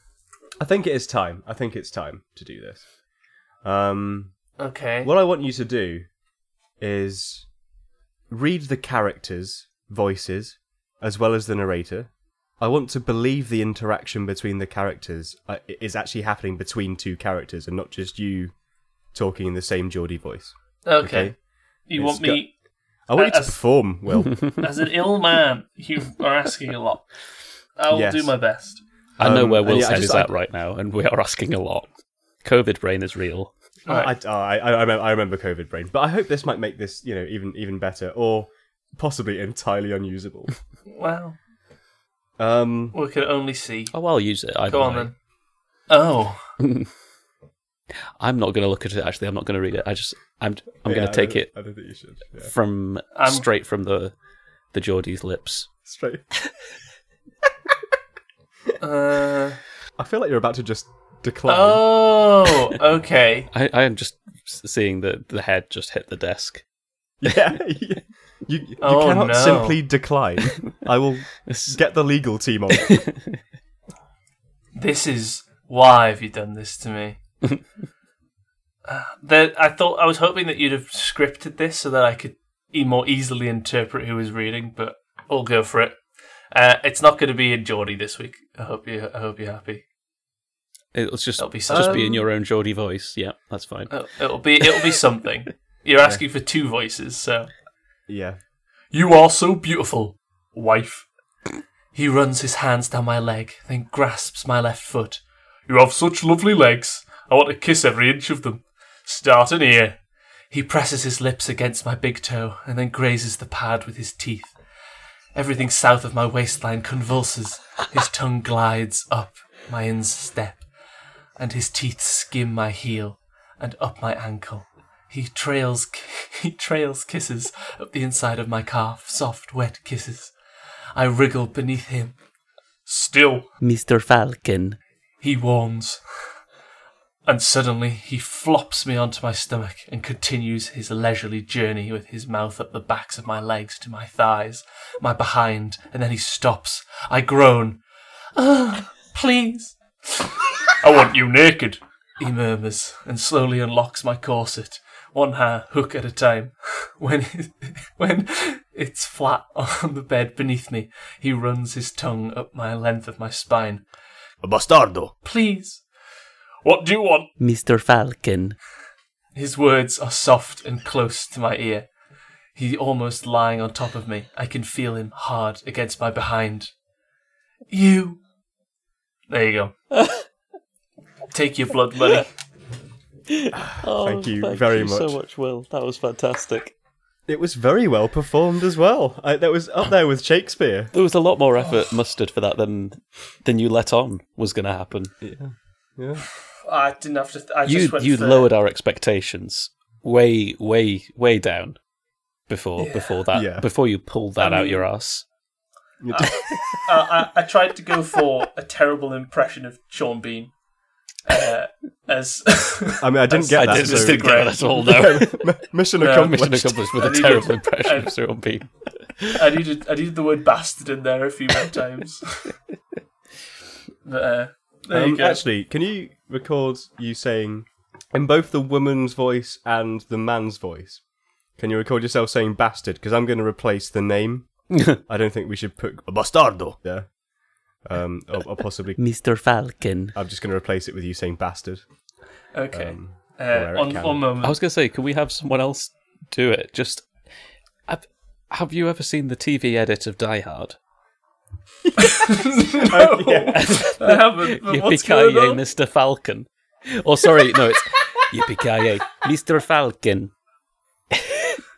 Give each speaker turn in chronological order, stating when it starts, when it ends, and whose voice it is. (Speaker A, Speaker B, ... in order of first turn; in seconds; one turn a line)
Speaker A: 0.6-2.9
Speaker A: 3.6-4.3
Speaker B: 4.6-5.1
Speaker A: 5.0-6.1
Speaker A: 6.8-7.5
Speaker A: 8.3-18.5
Speaker A: 19.1-21.4
Speaker B: 20.9-21.3
Speaker B: 21.9-22.5
Speaker A: 22.0-22.4
Speaker A: 23.1-24.6
Speaker B: 23.1-23.6
Speaker B: 24.6-27.1
Speaker B: 27.8-28.8
Speaker A: 27.9-28.3
Speaker A: 29.2-30.3
Speaker C: 29.2-31.9
Speaker C: 32.4-33.5
Speaker B: 33.9-34.1
Speaker A: 33.9-40.5
Speaker B: 40.9-41.4
Speaker A: 42.4-43.0
Speaker B: 42.9-43.9
Speaker C: 43.9-45.1
Speaker B: 44.7-45.1
Speaker B: 45.9-46.5
Speaker C: 46.6-46.9
Speaker C: 48.2-51.5
Speaker A: 50.9-52.5
Speaker C: 52.5-54.1
Speaker B: 53.1-53.4
Speaker C: 54.7-55.7
Speaker A: 55.9-56.3
Speaker B: 58.8-59.6
Speaker A: 60.0-61.9
Speaker B: 61.5-63.5
Speaker C: 63.5-66.6
Speaker A: 67.2-73.0
Speaker B: 68.8-69.8
Speaker C: 71.5-71.8
Speaker C: 72.7-73.4
Speaker B: 74.8-77.2
Speaker B: 78.8-86.0
Speaker B: 86.5-89.8
Speaker C: 90.9-93.9
Speaker B: 91.4-92.2
Speaker A: 91.7-92.2
Speaker B: 93.9-97.5
Speaker A: 98.1-98.4
Speaker B: 98.9-101.1
Speaker B: 101.9-110.0
Speaker B: 110.5-114.5
Speaker B: 115.3-120.7
Speaker B: 121.4-130.3
Speaker B: 130.9-132.2
Speaker B: 132.9-133.5
Speaker C: 133.6-134.8
Speaker B: 135.2-136.0
Speaker B: 137.3-147.8
Speaker B: 148.4-163.8
Speaker A: 164.4-165.1
Speaker B: 165.2-165.8
Speaker B: 166.6-167.3
Speaker C: 167.4-168.6
Speaker B: 169.3-171.9
Speaker B: 172.6-176.7
Speaker B: 177.7-178.2
Speaker B: 179.3-179.8
Speaker B: 181.3-182.3
Speaker C: 183.3-186.7
Speaker A: 183.5-185.2
Speaker A: 187.3-190.9
Speaker C: 190.9-195.1
Speaker A: 195.2-196.2
Speaker B: 196.7-198.5
Speaker C: 197.7-201.8
Speaker C: 202.5-205.2
Speaker B: 202.8-203.2
Speaker A: 203.3-203.7
Speaker B: 204.4-204.9
Speaker A: 206.0-206.6
Speaker B: 206.1-210.5
Speaker B: 211.2-214.7
Speaker A: 213.0-216.9
Speaker C: 213.5-215.5
Speaker B: 216.0-216.4
Speaker C: 216.0-219.4
Speaker B: 216.9-218.1
Speaker B: 219.3-222.5
Speaker B: 224.1-225.4
Speaker A: 224.9-231.0
Speaker A: 231.6-234.5
Speaker C: 234.7-235.0
Speaker A: 235.1-237.1
Speaker A: 237.8-239.0
Speaker C: 239.0-240.2
Speaker A: 240.2-241.8
Speaker B: 242.5-244.6
Speaker A: 242.7-244.2
Speaker C: 244.4-247.1
Speaker C: 247.9-250.8
Speaker B: 252.0-255.6
Speaker A: 252.7-253.8
Speaker C: 253.5-260.3
Speaker C: 261.1-261.6